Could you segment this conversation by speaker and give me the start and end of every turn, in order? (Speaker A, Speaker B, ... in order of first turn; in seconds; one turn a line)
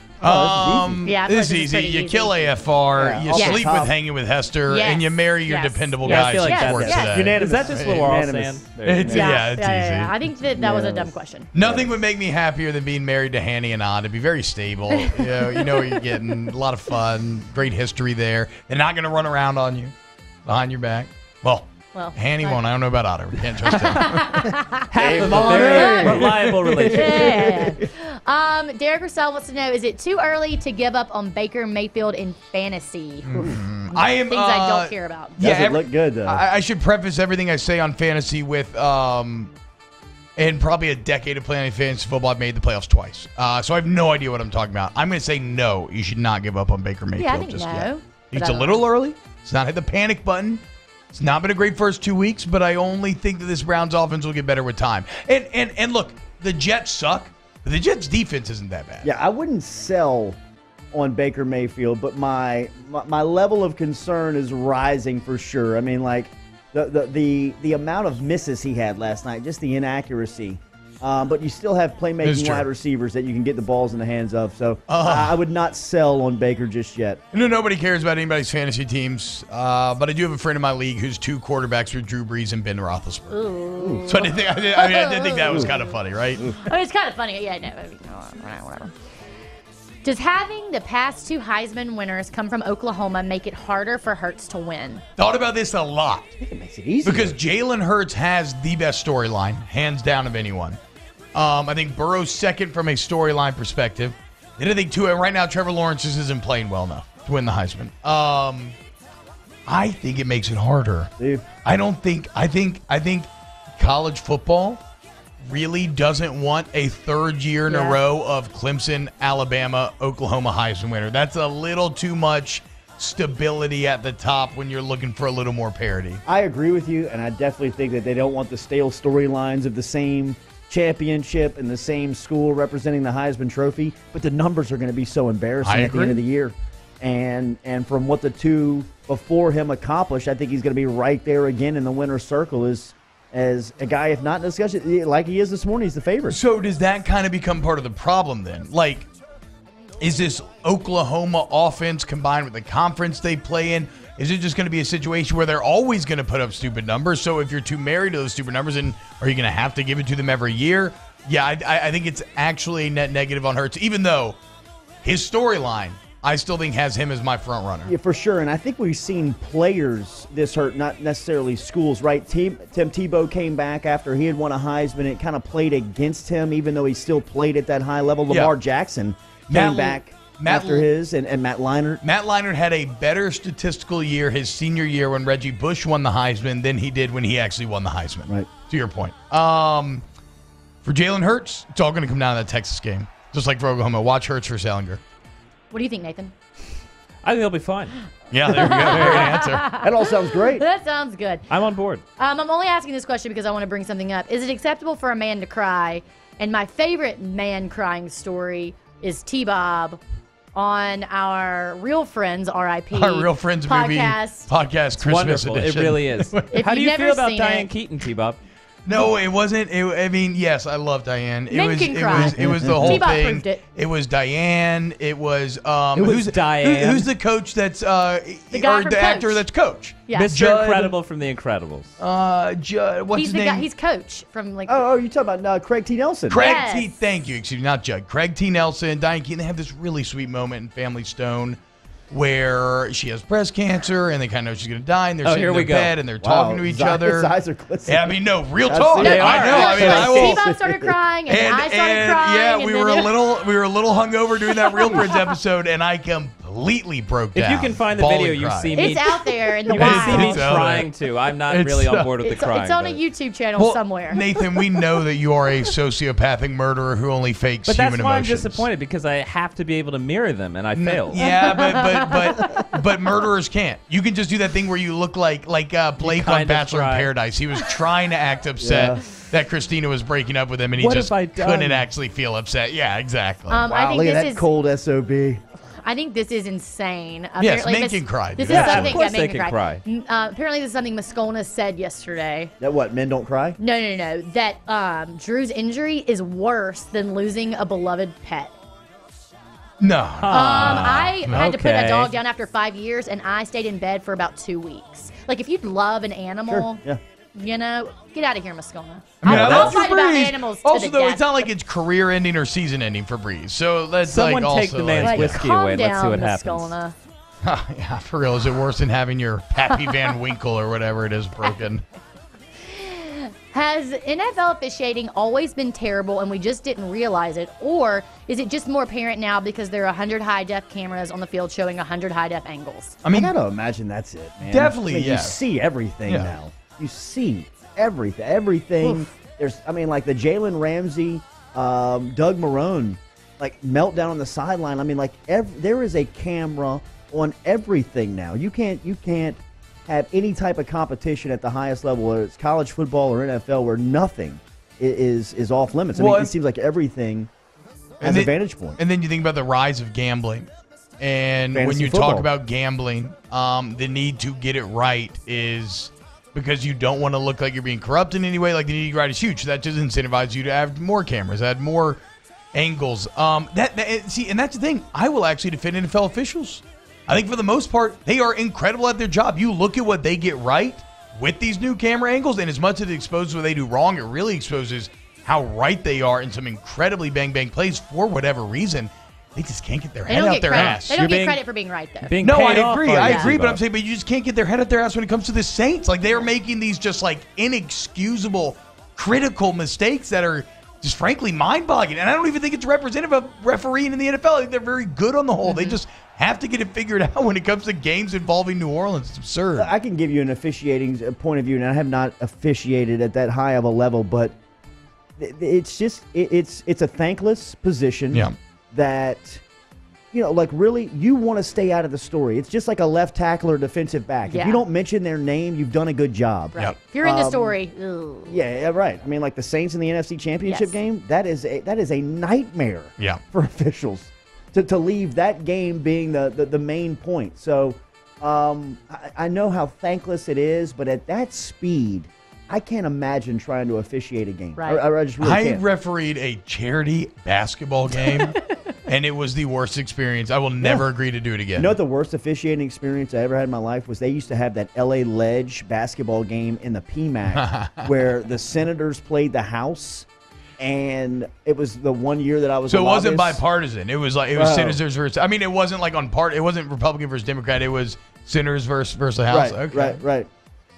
Speaker A: 0.2-1.1
Speaker B: 0.2-8.1
Speaker C: 1.1-2.5
Speaker A: 3.0-4.0
Speaker C: 3.3-3.7
Speaker C: 4.7-7.2
Speaker D: 6.0-9.2
Speaker A: 6.7-9.3
Speaker B: 8.8-10.2
Speaker C: 9.1-11.5
Speaker A: 10.6-12.0
Speaker B: 11.5-19.9
Speaker C: 14.9-16.0
Speaker B: 20.5-24.5
Speaker C: 21.9-22.6
Speaker C: 23.7-26.3
Speaker D: 24.9-27.5
Speaker A: 25.0-26.3
Speaker B: 25.4-26.9
Speaker C: 26.8-35.4
Speaker A: 27.0-27.9
Speaker B: 33.2-39.5
Speaker A: 35.4-36.5
Speaker B: 40.4-59.1
Speaker C: 47.1-48.8
Speaker A: 59.0-60.4
Speaker A: 60.9-77.2
Speaker B: 72.2-72.7
Speaker B: 74.9-75.4
Speaker B: 77.3-83.4
Speaker C: 83.3-89.0
Speaker A: 83.8-84.2
Speaker B: 84.1-86.5
Speaker C: 90.0-95.0
Speaker B: 95.2-96.3
Speaker A: 96.4-97.4
Speaker B: 97.0-100.8
Speaker B: 101.3-108.8
Speaker B: 109.7-114.8
Speaker A: 111.2-111.5
Speaker B: 115.5-126.2
Speaker C: 117.7-118.0
Speaker A: 126.3-146.4
Speaker B: 135.6-136.2
Speaker B: 146.3-149.1
Speaker B: 150.0-164.4
Speaker B: 165.0-167.9
Speaker A: 167.9-182.0
Speaker B: 178.3-178.5
Speaker B: 179.5-180.9
Speaker B: 182.0-190.0
Speaker B: 190.8-195.0
Speaker C: 195.7-196.3
Speaker D: 197.2-198.0
Speaker B: 198.3-199.8
Speaker C: 198.5-201.5
Speaker D: 198.9-199.3
Speaker A: 199.8-200.7
Speaker D: 201.5-202.0
Speaker C: 202.2-210.0
Speaker C: 210.6-214.5
Speaker B: 212.9-216.4
Speaker D: 215.0-218.4
Speaker C: 216.5-217.7
Speaker B: 218.8-231.0
Speaker C: 221.5-223.6
Speaker D: 222.1-223.1
Speaker D: 225.9-227.1
Speaker C: 228.5-229.5
Speaker D: 230.1-232.0
Speaker B: 232.0-233.7
Speaker C: 233.1-234.8
Speaker A: 234.7-236.5
Speaker B: 236.3-247.3
Speaker C: 236.3-237.0
Speaker D: 245.2-245.9
Speaker A: 246.2-250.9
Speaker B: 247.9-250.4
Speaker D: 249.0-250.4
Speaker C: 249.0-253.2
Speaker B: 251.3-258.8
Speaker C: 254.5-255.3
Speaker D: 257.4-263.0
Speaker C: 258.8-260.7
Speaker B: 259.7-260.9
Speaker B: 261.5-262.1
Speaker C: 262.2-264.2
Speaker B: 263.6-268.7
Speaker D: 267.7-271.3
Speaker B: 270.7-283.7
Speaker C: 271.2-272.1
Speaker D: 276.0-277.1
Speaker A: 278.6-279.0
Speaker D: 280.8-281.9
Speaker C: 283.5-284.5
Speaker A: 283.7-285.4
Speaker C: 285.7-292.5
Speaker B: 287.4-289.0
Speaker D: 288.5-289.8
Speaker A: 292.6-293.6
Speaker C: 293.6-298.6
Speaker B: 299.8-301.4
Speaker D: 300.2-302.1
Speaker C: 300.3-306.8
Speaker A: 306.5-307.0
Speaker C: 307.4-311.2
Speaker B: 309.2-315.4
Speaker D: 309.3-309.8
Speaker D: 314.1-316.7
Speaker C: 315.0-317.0
Speaker B: 317.4-321.8
Speaker C: 322.7-333.0
Speaker B: 333.1-333.3
Speaker A: 333.1-357.3
Speaker B: 334.4-335.4
Speaker B: 336.1-336.3
Speaker C: 338.8-339.1
Speaker B: 355.9-356.3
Speaker B: 358.0-372.0
Speaker A: 358.0-358.8
Speaker A: 361.5-362.3
Speaker B: 372.5-391.0
Speaker C: 390.1-392.1
Speaker D: 390.5-391.4
Speaker D: 392.0-393.6
Speaker B: 392.2-409.7
Speaker C: 393.0-393.3
Speaker C: 405.4-405.8
Speaker A: 409.6-414.4
Speaker A: 415.2-419.4
Speaker A: 420.1-427.6
Speaker C: 424.3-424.6
Speaker C: 426.5-428.4
Speaker A: 428.3-445.6
Speaker C: 430.4-430.8
Speaker C: 444.6-444.8
Speaker B: 445.2-448.3
Speaker C: 448.0-448.6
Speaker B: 448.9-451.8
Speaker A: 451.6-460.1
Speaker B: 457.3-457.9
Speaker A: 460.6-463.4
Speaker B: 462.7-470.0
Speaker A: 464.4-464.8
Speaker A: 469.3-470.3